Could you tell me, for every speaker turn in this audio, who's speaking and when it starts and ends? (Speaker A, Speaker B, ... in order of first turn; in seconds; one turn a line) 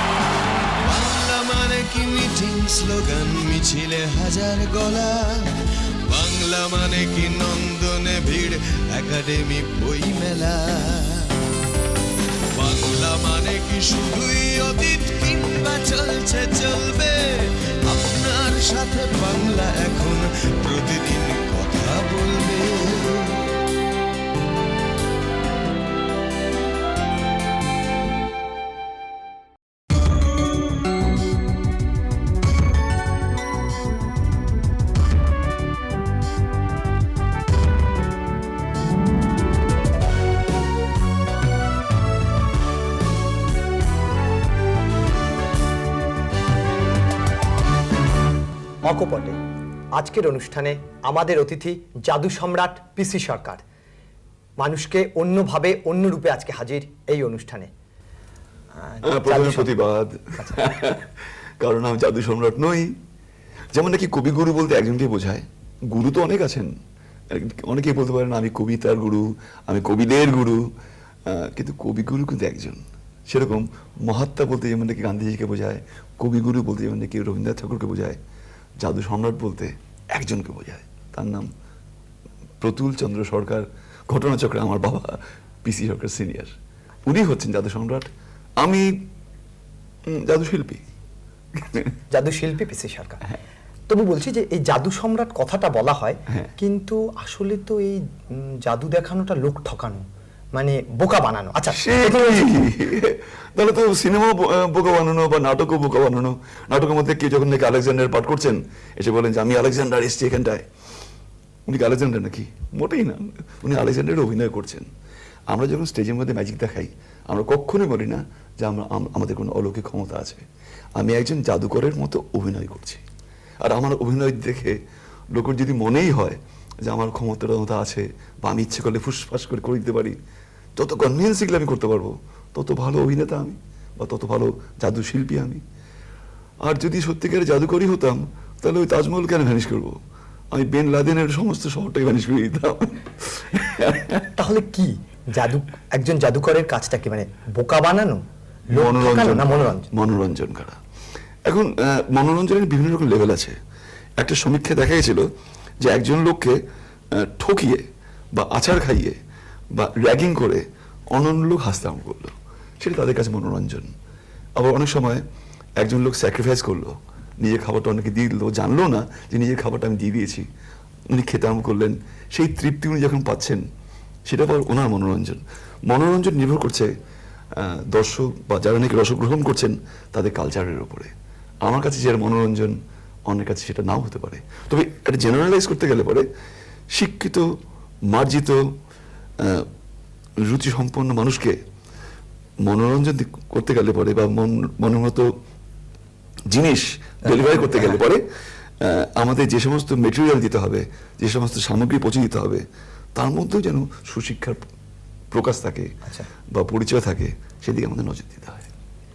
Speaker A: 0.8-11.4
Speaker A: 12.5-23.5
Speaker B: 48.8-49.4
Speaker B: 49.9-53.6
Speaker B: 54.6-57.7
Speaker B: 58.8-59.7
Speaker C: 59.0-63.0
Speaker B: 60.4-60.7
Speaker C: 63.7-66.7
Speaker C: 67.3-78.2
Speaker C: 78.8-81.5
Speaker C: 82.6-89.0
Speaker C: 90.0-90.8
Speaker C: 91.5-91.9
Speaker B: 92.1-93.3
Speaker B: 93.9-102.6
Speaker C: 101.7-110.7
Speaker C: 111.7-114.9
Speaker C: 115.5-123.0
Speaker C: 123.6-124.8
Speaker C: 125.3-130.2
Speaker C: 130.8-135.6
Speaker C: 136.6-140.0
Speaker C: 140.5-144.3
Speaker B: 144.2-149.9
Speaker C: 148.7-150.8
Speaker C: 151.4-153.6
Speaker C: 154.2-155.3
Speaker C: 155.8-159.2
Speaker C: 159.7-163.9
Speaker C: 164.6-165.2
Speaker C: 165.8-170.5
Speaker C: 171.1-173.7
Speaker C: 174.3-176.9
Speaker C: 177.5-181.1
Speaker C: 181.6-186.3
Speaker C: 186.9-187.6
Speaker C: 188.1-188.8
Speaker C: 189.4-189.7
Speaker C: 190.4-191.6
Speaker C: 192.6-195.3
Speaker C: 196.5-204.6
Speaker B: 197.2-198.0
Speaker C: 205.3-208.7